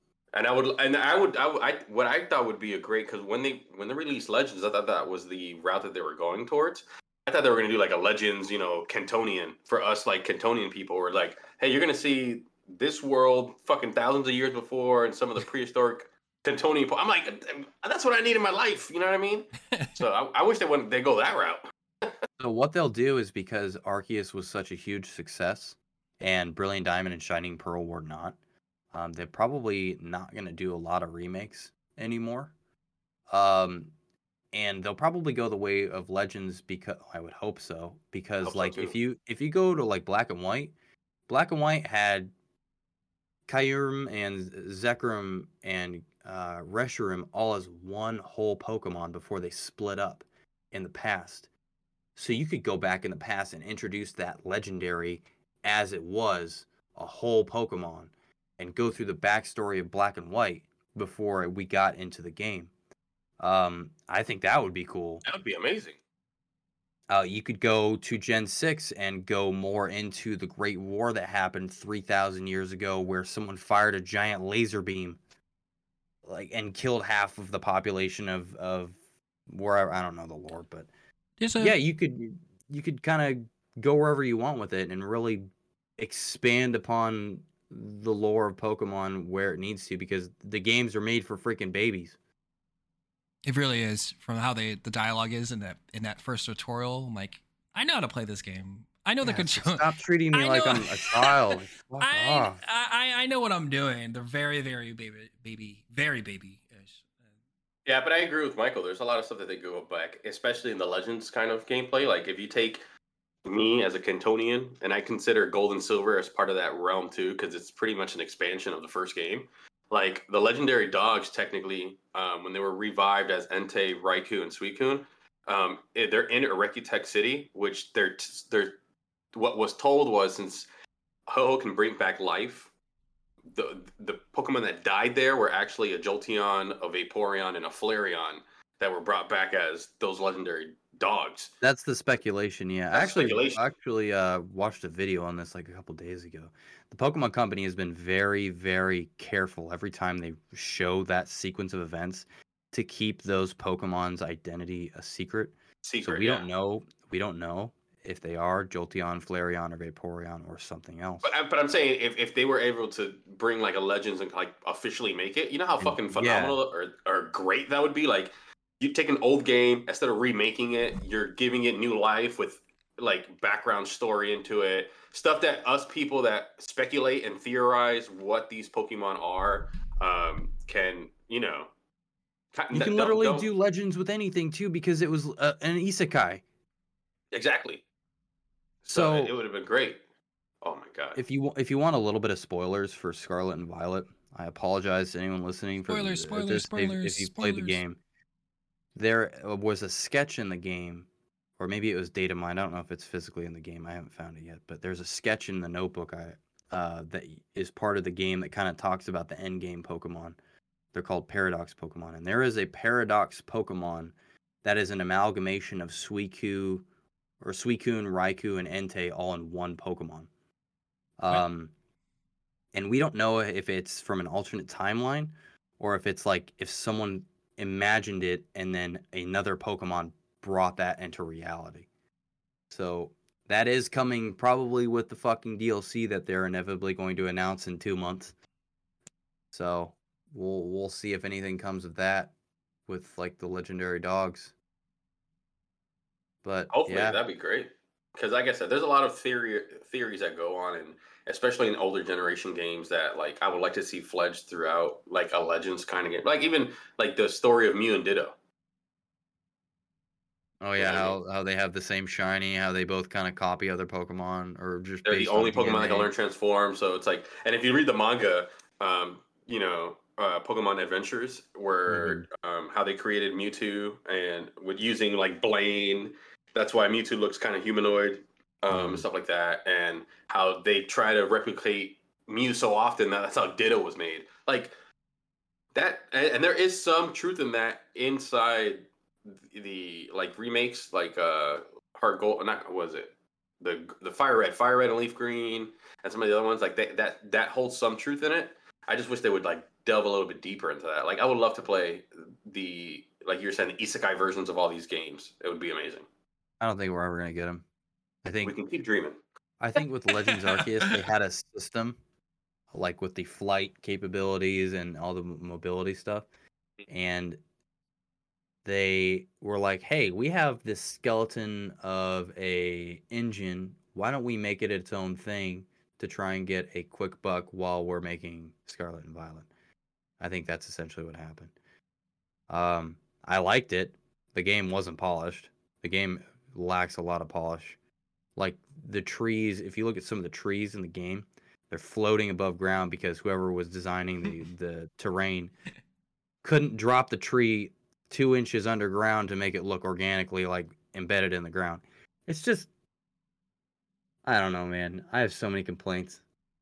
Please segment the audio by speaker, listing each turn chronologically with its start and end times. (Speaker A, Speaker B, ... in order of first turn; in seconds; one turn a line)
Speaker A: 0.3-22.2
Speaker B: 22.4-28.4
Speaker B: 28.9-32.5
Speaker B: 33.3-33.9
Speaker B: 34.5-40.7
Speaker A: 38.4-39.0
Speaker B: 41.3-42.3
Speaker B: 43.5-51.5
Speaker B: 52.2-62.7
Speaker B: 63.4-65.2
Speaker A: 65.3-66.0
Speaker B: 67.1-75.2
Speaker B: 76.2-80.9
Speaker C: 81.4-81.8
Speaker B: 81.6-92.2
Speaker C: 93.5-107.1
Speaker B: 99.2-102.6
Speaker A: 107.9-112.8
Speaker A: 113.5-128.8
Speaker A: 129.3-130.7
Speaker A: 131.3-132.7
Speaker A: 133.5-141.5
Speaker B: 141.6-155.6
Speaker A: 142.9-143.6
Speaker A: 155.8-156.5
Speaker B: 156.1-161.3
Speaker A: 161.2-181.7
Speaker B: 165.8-166.6
Speaker A: 182.5-183.5
Speaker B: 182.7-186.4
Speaker A: 187.3-187.8
Speaker A: 188.8-190.0
Speaker B: 188.9-189.3
Speaker A: 190.6-191.2
Speaker B: 191.2-198.0
Speaker C: 195.8-197.8
Speaker B: 198.9-201.1
Speaker B: 201.6-210.4
Speaker B: 210.9-216.9
Speaker B: 217.4-220.3
Speaker B: 221.2-221.7
Speaker B: 222.7-231.9
Speaker B: 232.7-238.3
Speaker B: 239.5-242.3
Speaker B: 242.9-244.5
Speaker B: 246.4-247.2
Speaker A: 246.7-258.4
Speaker B: 260.6-266.1
Speaker A: 260.8-261.2
Speaker A: 265.1-284.7
Speaker B: 271.9-272.2
Speaker B: 278.7-279.1
Speaker A: 285.7-306.1
Speaker B: 306.6-307.6
Speaker B: 308.2-308.6
Speaker A: 308.4-309.2
Speaker B: 309.6-312.0
Speaker C: 310.4-310.7
Speaker B: 312.7-316.3
Speaker B: 316.9-317.4
Speaker B: 318.6-329.5
Speaker B: 330.2-331.5
Speaker B: 332.5-337.8
Speaker B: 338.4-345.5
Speaker B: 346.4-352.7
Speaker B: 354.2-356.2